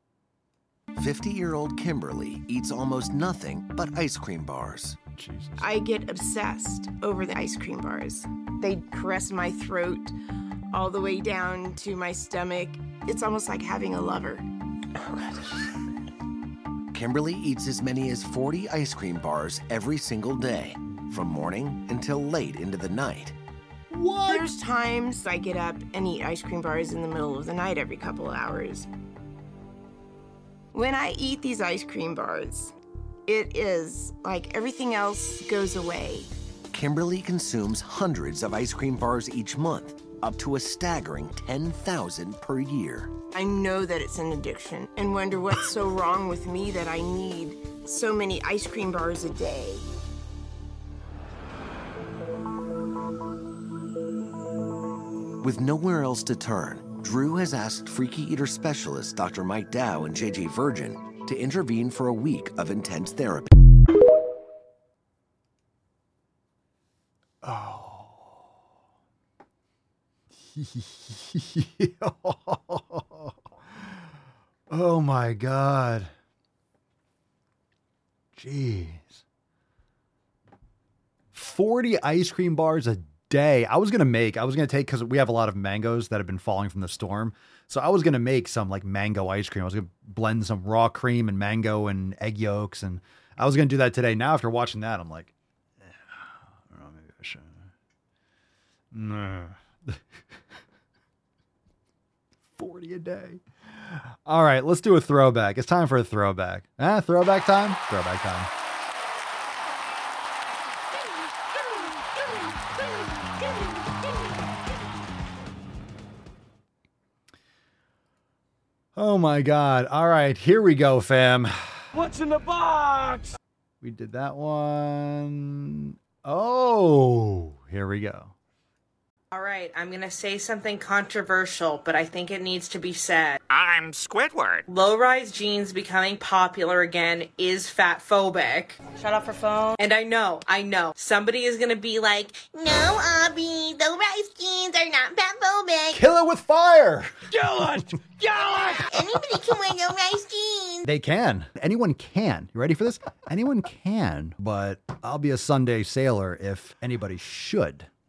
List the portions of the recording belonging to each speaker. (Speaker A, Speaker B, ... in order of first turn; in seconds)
Speaker A: 0.9-5.0, 16.9-23.3, 36.7-43.1, 55.4-63.5
Speaker B: 5.2-5.7, 23.9-24.5, 67.4-68.4, 70.4-73.9, 74.7-76.1, 78.3-79.2, 81.3-97.7, 98.9-100.0, 102.5-108.5, 119.0-121.9, 123.8-128.3, 145.9-147.1, 150.8-157.9
Speaker C: 5.6-10.1, 10.7-14.4, 24.2-28.9, 30.7-32.7, 33.3-36.3, 43.3-49.9
Speaker D: 121.9-123.3, 147.3-148.9
Speaker E: 129.3-133.4, 134.6-138.8, 139.7-142.4
Speaker F: 142.4-146.0, 148.9-150.8